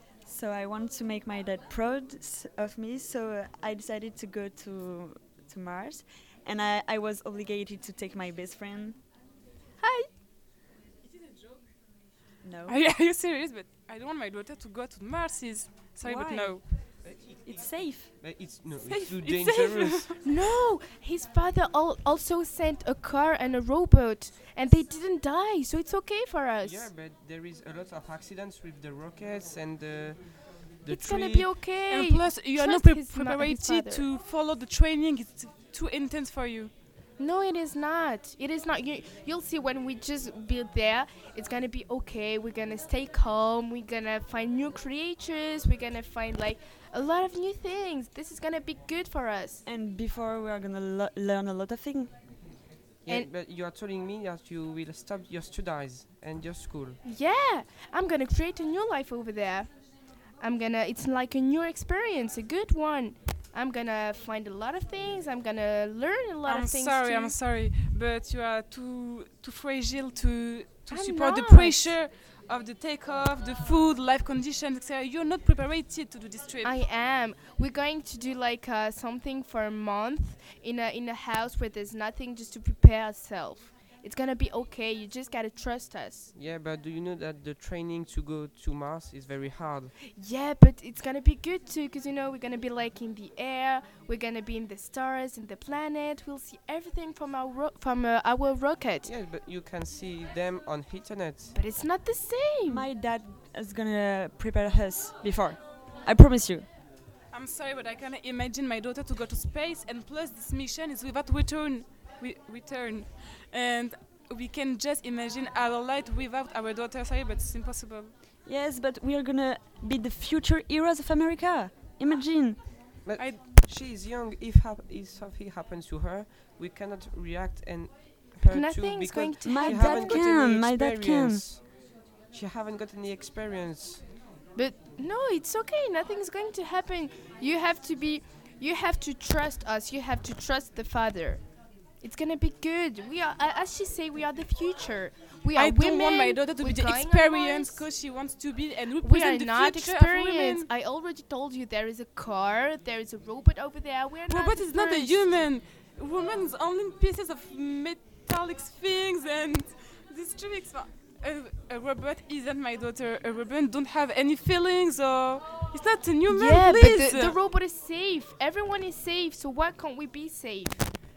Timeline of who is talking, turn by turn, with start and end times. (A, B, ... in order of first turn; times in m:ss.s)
0:00.2-0:09.0 A
0:09.8-0:10.1 B
0:12.4-0:12.8 A
0:12.6-0:16.6 C
0:16.0-0:18.1 A
0:17.0-0:20.1 D
0:18.8-0:20.2 C
0:20.2-0:26.9 B
0:26.6-0:31.5 D
0:30.8-0:34.0 B
0:31.9-0:36.7 C
0:37.2-0:49.6 B
0:49.6-0:52.1 A
0:53.0-0:57.0 D
0:57.0-1:07.4 B
1:06.4-1:16.8 C
1:10.9-1:11.9 B
1:16.6-1:26.3 B
1:26.3-1:29.9 D
1:30.1-1:39.1 B
1:39.0-1:41.6 D
1:41.5-1:42.8 B
1:42.6-1:46.7 A
1:47.3-1:58.1 C
1:58.4-2:02.7 A
2:03.0-2:11.7 D
2:08.5-2:10.3 B
2:09.4-2:11.4 A
2:12.3-2:14.0 D
2:14.5-2:27.9 B
2:25.5-2:30.7 C
2:29.0-2:35.3 B
2:34.3-2:47.4 C
2:46.3-2:50.8 B